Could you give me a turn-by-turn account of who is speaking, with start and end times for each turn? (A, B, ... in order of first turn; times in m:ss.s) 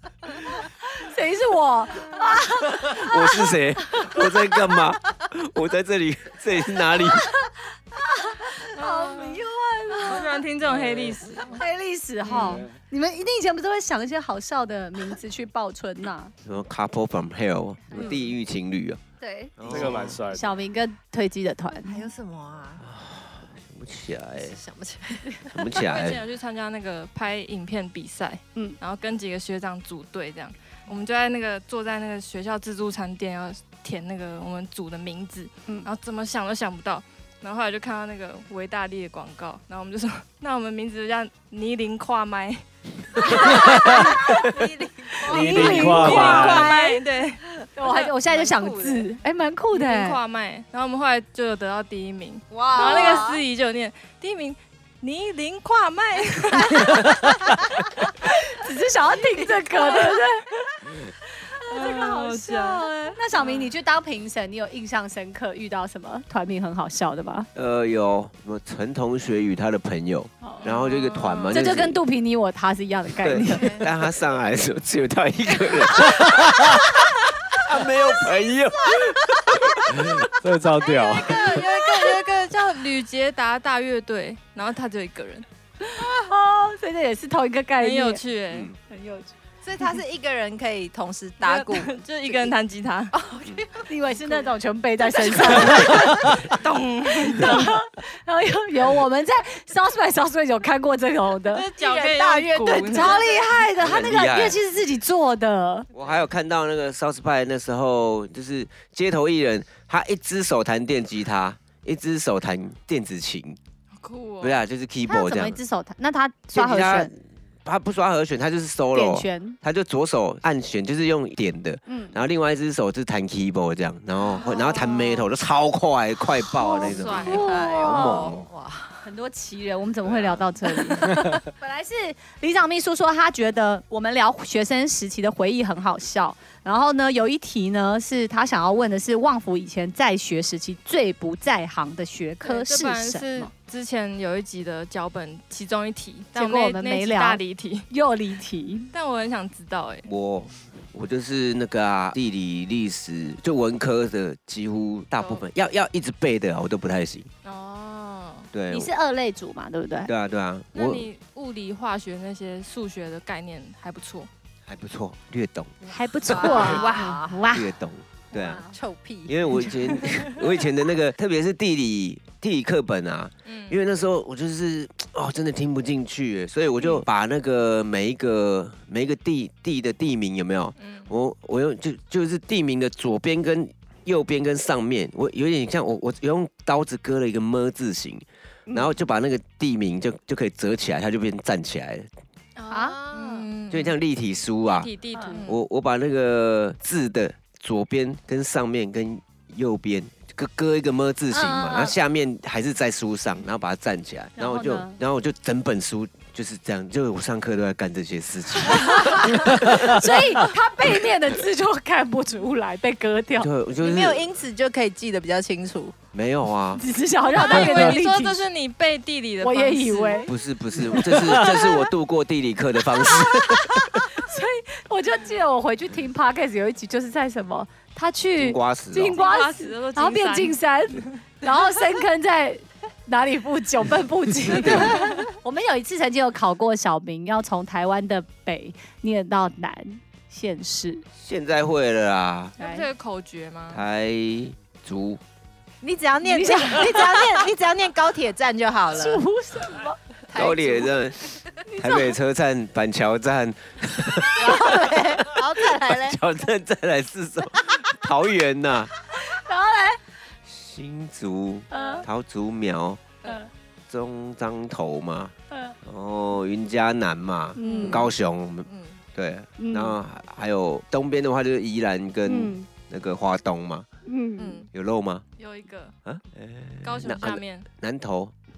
0:00.9-0:03.5 A
0:02.7-0:07.3 B
0:07.2-0:10.4 A
0:08.8-0:09.4 C
0:10.0-0:11.6 C
0:10.6-0:11.2 D
0:11.5-0:16.3 A
0:12.3-0:12.7 D
0:16.4-0:19.0 B
0:19.2-0:19.5 E
0:19.6-0:20.2 B
0:19.6-0:20.6 D
0:20.3-0:22.1 A
0:21.8-0:22.8 E
0:22.8-0:24.6 B
0:24.4-0:25.5 E
0:25.5-0:26.2 B
0:25.8-0:44.6 C
0:43.4-0:46.8 E
0:43.5-0:44.1 D
0:43.6-0:44.3 A
0:45.3-0:46.7 D
0:45.3-0:47.0 A
0:45.4-0:48.1 C
0:47.8-0:50.2 A
0:47.9-0:49.0 E
0:49.7-0:57.3 C
0:52.5-0:53.4 E
0:52.7-0:53.3 A
0:56.5-0:57.3 E
0:58.2-1:00.7 A
0:59.8-1:00.2 C
1:01.4-1:07.5 A
1:01.6-1:03.7 C
1:07.6-1:12.0 B
1:10.4-1:10.7 A
1:10.6-1:11.7 C
1:11.5-1:13.8 A
1:13.2-1:16.9 B
1:13.6-1:13.8 E
1:16.2-1:16.6 D
1:17.5-1:20.3 B
1:20.2-1:21.6 D
1:20.9-1:21.7 E
1:21.0-1:25.5 C
1:25.8-1:28.2 A
1:27.8-1:28.7 C
1:28.8-1:29.3 A
1:29.6-1:32.5 E
1:31.4-1:33.1 C
1:33.1-1:33.9 E
1:33.8-1:36.4 A
1:35.1-1:36.1 E
1:35.6-1:37.8 C
1:37.2-1:41.7 A
1:41.5-1:43.2 C
1:41.7-1:43.6 E
1:42.8-1:45.9 A
1:43.8-1:44.6 B
1:45.9-1:53.6 B
1:54.0-1:54.6 C
1:54.4-1:55.6 B
1:55.1-1:57.1 A
1:56.5-2:08.5 B
1:58.9-1:59.6 A
2:01.9-2:02.2 A
2:04.3-2:05.1 C
2:06.6-2:08.3 A
2:06.7-2:07.6 C
2:07.2-2:09.1 E
2:09.0-2:23.5 A
2:22.4-2:27.9 C
2:26.4-2:28.9 A
2:28.9-2:30.1 C
2:30.1-2:37.3 B
2:35.2-2:35.4 C
2:37.4-2:38.5 C
2:38.5-2:38.9 B
2:38.7-2:40.1 A
2:40.1-2:41.1 B
2:40.7-2:44.3 C
2:44.7-2:46.8 B
2:45.9-2:47.7 A
2:46.3-2:47.5 E
2:46.6-2:47.0 C
2:47.5-2:48.6 B
2:48.4-2:48.7 A
2:48.4-2:50.2 E
2:49.3-3:12.1 B
2:53.4-2:53.8 C
3:00.8-3:01.1 C
3:08.7-3:09.0 A
3:12.6-3:14.0 C
3:12.7-3:13.4 A
3:13.1-3:13.5 E
3:13.7-3:14.9 B
3:14.6-3:15.6 C
3:15.1-3:15.4 A
3:15.5-3:30.2 B
3:21.3-3:22.0 A
3:24.4-3:25.0 A
3:28.6-3:33.5 A
3:33.4-3:34.3 B
3:33.8-3:36.0 E
3:36.1-3:36.8 B
3:36.8-3:38.4 A
3:37.3-3:40.3 C
3:39.4-3:40.3 A
3:40.3-3:44.0 B
3:41.1-3:41.9 A
3:43.0-4:01.0 A
3:48.4-3:49.2 B
3:49.1-3:50.6 C
3:54.6-3:54.9 B
3:54.7-3:55.2 C
4:01.2-4:02.6 B
4:02.6-4:02.9 A
4:02.6-4:03.8 C
4:03.7-4:05.2 B
4:05.8-4:09.2 E
4:06.2-4:07.3 A
4:08.9-4:10.0 A
4:10.3-4:11.0 E
4:10.4-4:18.9 B
4:11.7-4:12.2 A
4:14.4-4:16.2 E
4:19.2-4:20.0 A
4:20.5-4:23.0 B
4:21.7-4:22.0 A
4:23.2-4:23.5 A
4:23.9-4:33.9 B
4:27.6-4:28.1 A
4:27.6-4:28.0 C
4:29.6-4:30.0 A
4:32.3-4:32.7 A
4:34.1-4:34.7 A
4:34.4-4:34.7 C
4:34.7-4:35.2 B
4:35.4-4:36.0 C
4:36.0-4:38.3 B
4:36.8-4:37.7 C